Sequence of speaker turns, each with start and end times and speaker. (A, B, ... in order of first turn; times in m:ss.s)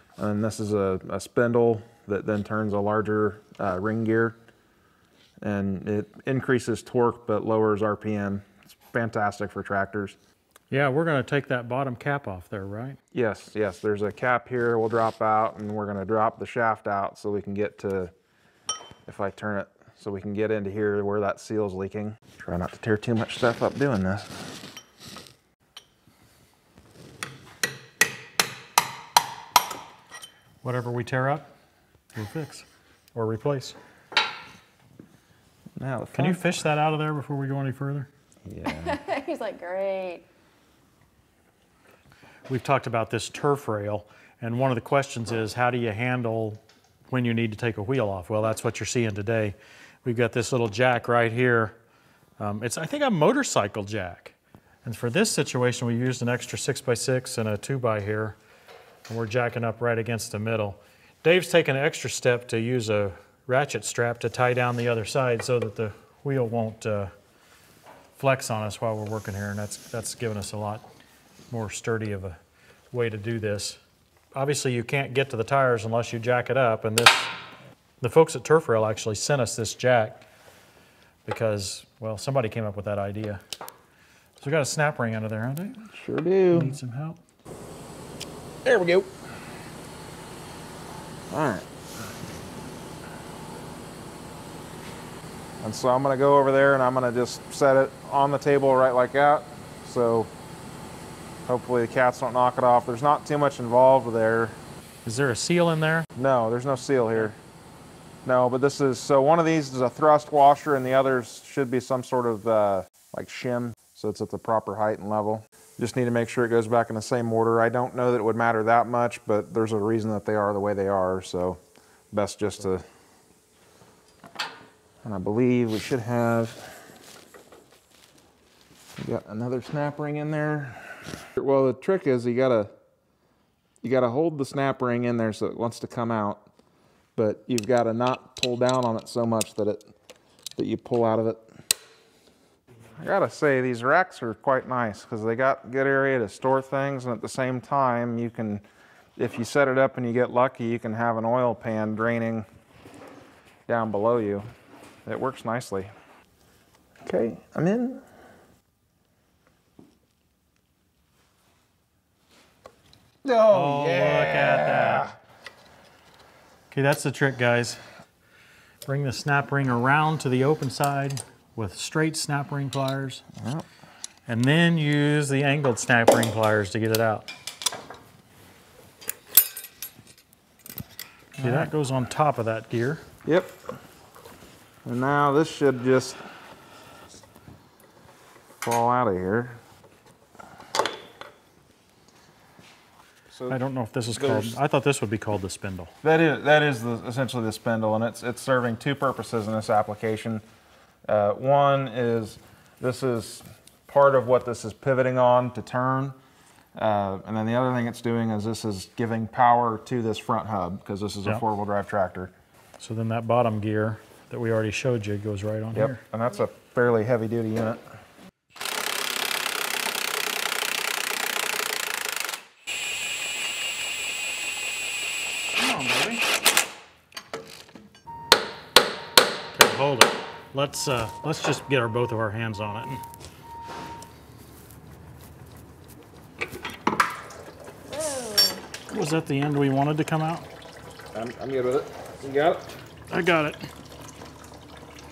0:00.2-0:04.4 A
0:05.4-0:10.2 A
0:10.7-0:13.0 B
0:13.1-0:18.1 A
0:19.1-0:24.5 A
0:30.6-0:31.5 B
0:32.2-0:33.8 B
0:35.8-0:36.6 A
0:36.1-0:38.1 B
0:38.5-0:39.0 A
0:38.7-0:40.2 C
0:42.5-0:51.8 B
0:52.4-0:58.4 B
0:59.1-1:07.1 B
1:08.2-1:10.8 B
1:11.5-1:12.4 B
1:12.9-1:13.8 B
1:14.4-1:17.3 B
1:18.0-1:20.2 B
1:21.2-1:23.4 B
1:24.4-1:25.8 B
1:25.9-1:26.7 A
1:26.5-1:27.2 B
1:28.6-1:29.1 A
1:31.3-1:32.1 A
1:35.6-1:40.3 A
1:41.5-1:44.6 A
1:45.0-1:46.1 B
1:46.2-1:47.4 A
1:48.2-2:01.6 A
2:02.1-2:02.8 A
2:05.0-2:06.9 A
2:09.0-2:12.7 A
2:13.8-2:16.4 A
2:17.2-2:19.8 A
2:20.6-2:21.4 A
2:23.0-2:28.6 A
2:29.2-2:32.5 A
2:33.7-2:34.5 A
2:35.1-2:35.9 A
2:37.0-2:38.0 A
2:43.2-2:45.1 A
2:43.5-2:45.1 B
2:46.7-2:47.8 B
2:48.8-2:53.2 B
2:53.4-2:53.6 A
2:54.3-2:57.3 B
3:01.4-3:01.7 A
3:01.4-3:03.0 B
3:03.2-3:03.6 A
3:04.8-3:06.2 A
3:08.6-3:09.6 A
3:13.3-3:14.6 A
3:13.5-3:15.9 B
3:16.0-3:20.4 A
3:21.1-3:26.2 A
3:26.8-3:32.3 A
3:32.8-3:36.0 B
3:35.7-3:37.8 A
3:45.5-3:46.3 B
3:49.5-3:53.0 B
3:57.9-3:58.6 C
3:58.9-4:00.5 B
4:01.1-4:02.8 A
4:03.1-4:03.6 B